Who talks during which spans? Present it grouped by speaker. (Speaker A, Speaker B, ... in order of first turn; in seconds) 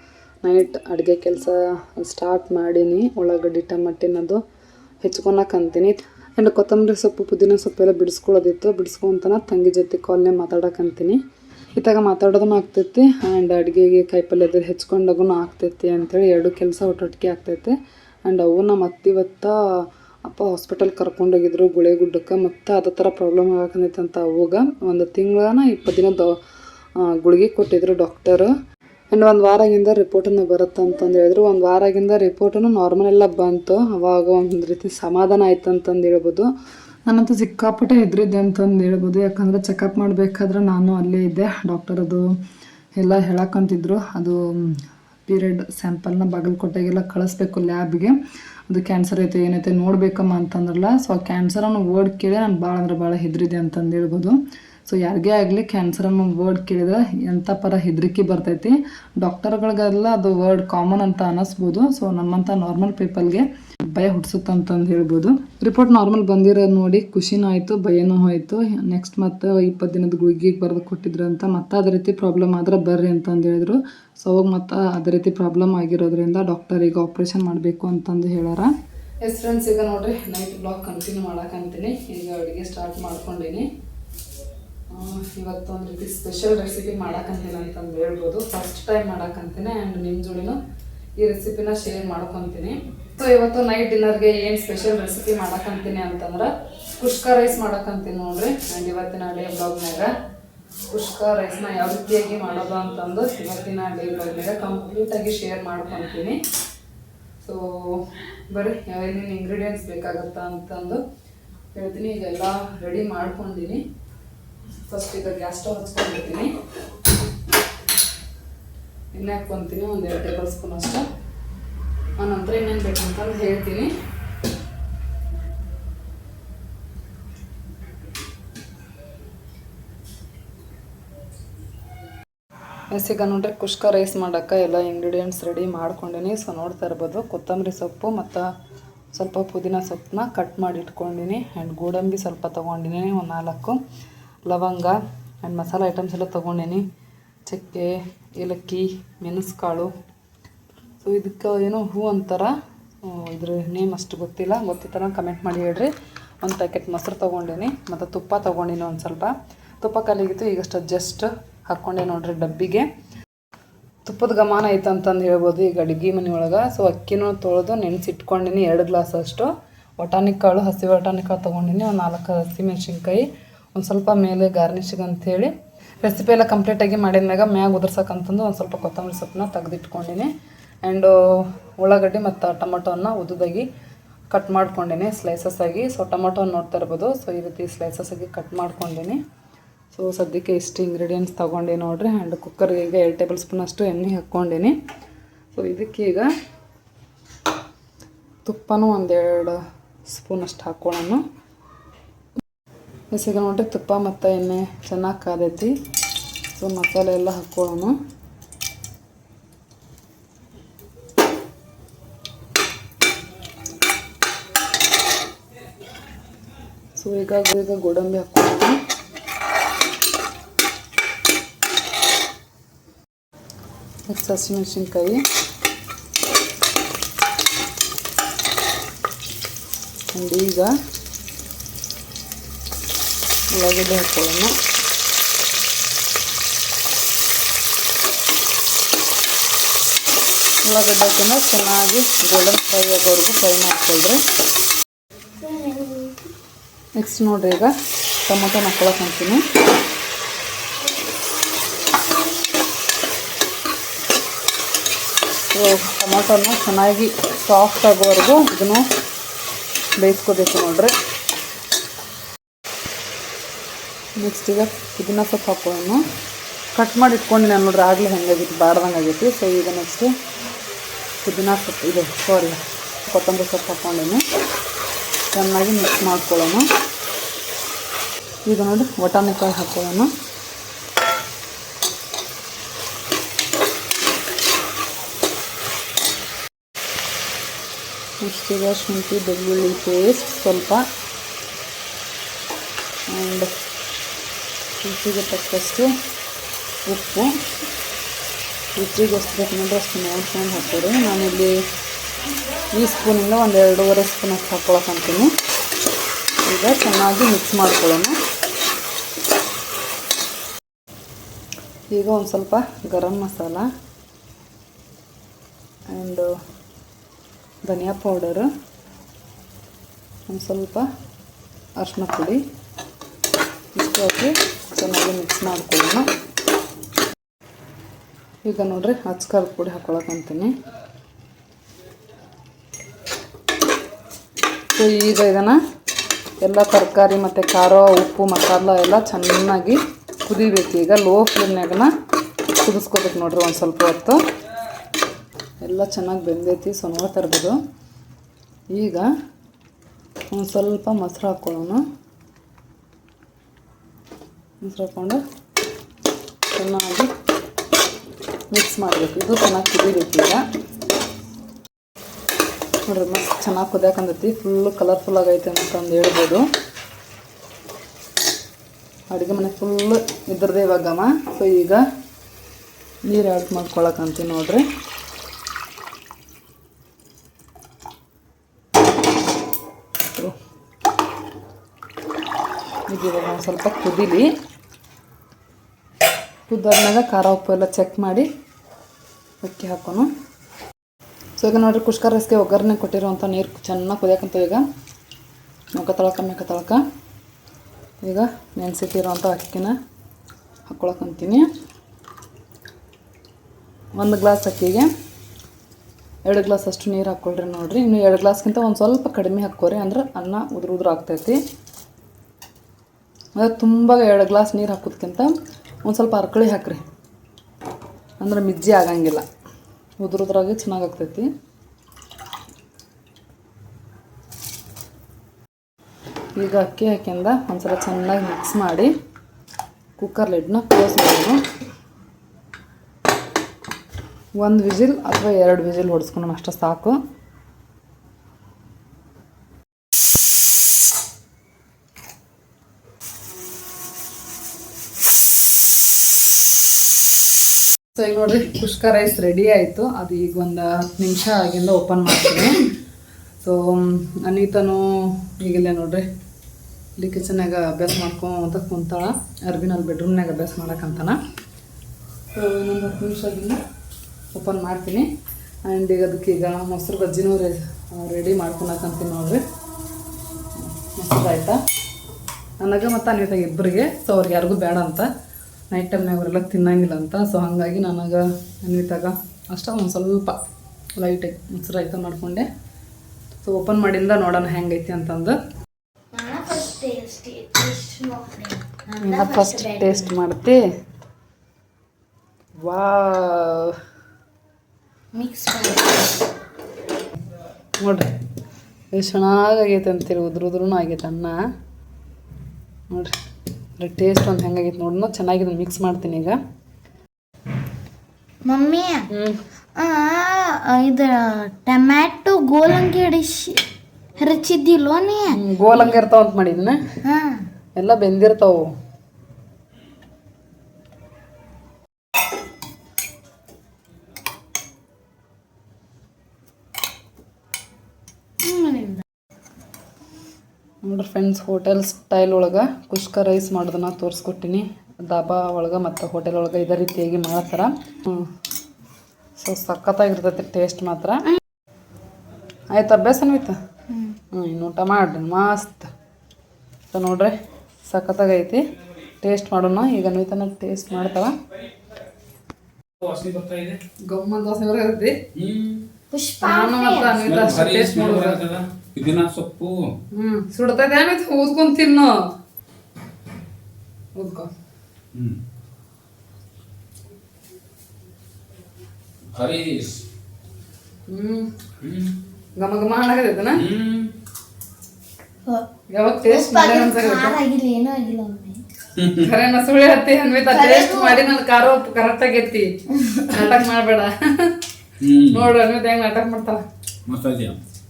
Speaker A: 0.4-4.4, 5.0-11.2, 11.8-17.8, 18.3-26.4, 27.0-28.5, 29.1-36.5, 37.1-42.3, 43.0-44.8, 45.3-48.2, 48.7-83.7, 84.9-90.6, 91.2-100.1, 100.9-106.4, 107.4-111.0, 111.7-113.8, 114.9-116.5, 119.1-121.0, 122.2-123.9, 132.9-138.5, 139.1-143.8, 144.5-146.8, 147.5-149.9, 151.0-152.5, 153.1-162.9, 164.1-180.3, 180.8-183.7, 184.3-189.2, 189.9-194.8, 195.5-196.3, 198.4-201.2, 203.1-205.8, 206.6-207.9, 217.0-218.8, 224.1-225.2, 230.1-230.7, 233.5-234.6, 240.6-244.2, 247.0-247.7, 248.3-249.4, 255.5-258.9, 260.0-260.9, 264.2-266.0, 266.8-270.1, 271.2-274.2, 275.3-276.7, 278.5-280.1, 288.2-290.8, 293.1-293.5, 294.8-295.9, 296.9-297.3, 298.8-301.6, 302.7-305.3, 306.4-308.1, 311.9-313.7, 315.9-316.3, 317.6-318.5, 320.3-320.9, 321.8-322.4, 323.8-326.1, 328.4-330.5, 334.8-335.6, 336.4-341.9, 342.6-344.2, 345.6-347.6, 348.7-349.1, 350.3-351.8, 354.6-355.2, 356.5-357.1, 358.5-360.4, 362.9-366.4, 369.1-371.8, 373.0-374.6, 382.9-384.3, 386.5-388.3, 389.4-390.1, 391.4-394.6, 395.7-396.8, 398.0-399.8, 400.7-401.5, 403.9-404.9, 406.2-411.4, 413.4-415.3, 415.8-416.8, 418.2-419.2, 420.0-421.3, 426.4-428.9, 430.0-431.4, 434.4-437.0, 448.0-452.6, 453.4-456.0, 457.0-461.2, 462.3-463.6, 464.3-465.1, 465.6-469.4, 470.6-471.6, 472.6-475.1, 475.7-480.4, 481.0-482.5, 483.4-485.4, 489.0-490.6, 492.6-493.8, 497.8-498.1, 498.9-501.4, 503.8-506.4, 509.1-509.4, 515.3-516.8, 517.8-518.7, 530.8-538.3, 539.4-541.3, 542.7-543.6, 544.3-545.9, 546.9-547.4, 547.9-548.6, 549.2-551.4, 554.1-555.2, 556.4-558.4, 560.1-562.1, 564.2-564.5, 571.1-571.5, 572.6-573.6, 575.9-577.4, 579.2-584.6, 585.3-586.6
Speaker B: 245.4-246.2, 486.1-490.1, 495.1-496.2, 508.4-509.1, 509.8-513.6, 514.2-515.9, 517.0-517.5, 528.4-529.0, 543.9-544.2, 556.1-557.2, 576.3-578.6, 580.5-581.2
Speaker C: 553.0-553.8, 555.4-555.9, 557.2-559.9, 569.3-570.0, 571.8-572.1, 573.6-574.1, 579.0-579.3, 585.0-585.5, 587.1-587.6